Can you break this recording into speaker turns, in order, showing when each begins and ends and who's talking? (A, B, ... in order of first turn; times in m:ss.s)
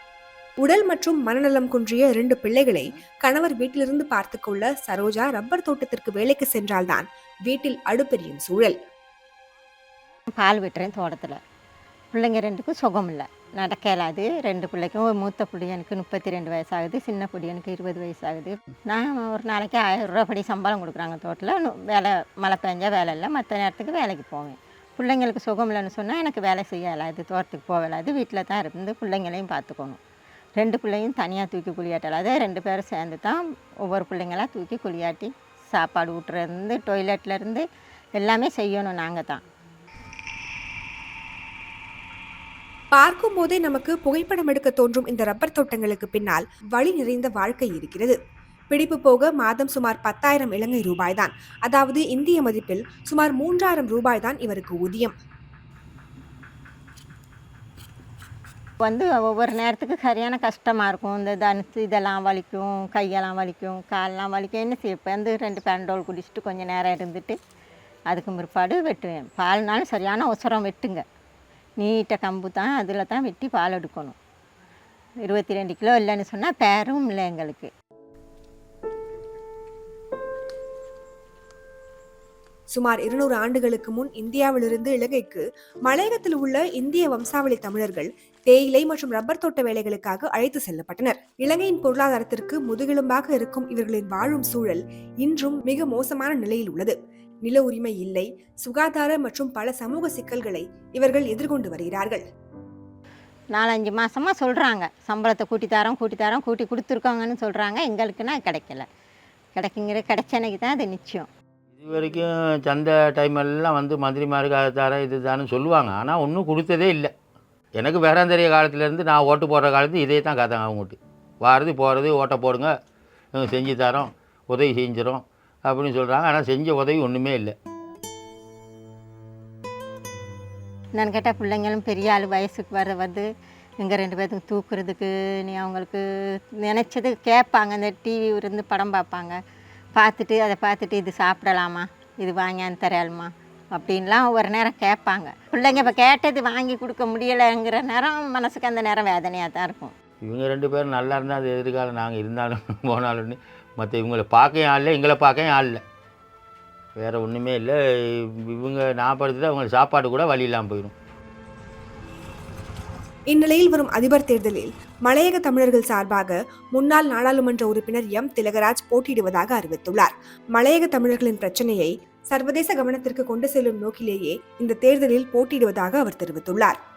0:00.6-0:08.8 A
0:10.4-0:11.4 B
0:12.1-0:30.0 B
0:30.6-0:37.6 B
0:38.2-0:39.4 B
0:42.9-0:48.2 A
0:48.7-0:55.2 A
0:58.8-1:07.4 B
1:08.1-1:11.0 B
1:11.8-1:14.2 B
1:15.2-1:17.7 B
1:22.7-1:42.2 A
1:43.5-1:48.9 B
1:49.6-1:51.3 B
1:51.7-1:57.1 C
1:57.8-2:02.7 C
2:03.3-2:07.6 C
2:11.0-2:13.3 B
2:13.8-2:16.0 B
2:16.6-2:19.4 B
2:20.0-2:29.9 B
2:30.2-2:35.8 C
2:37.0-2:40.9 C
2:43.3-2:56.8 A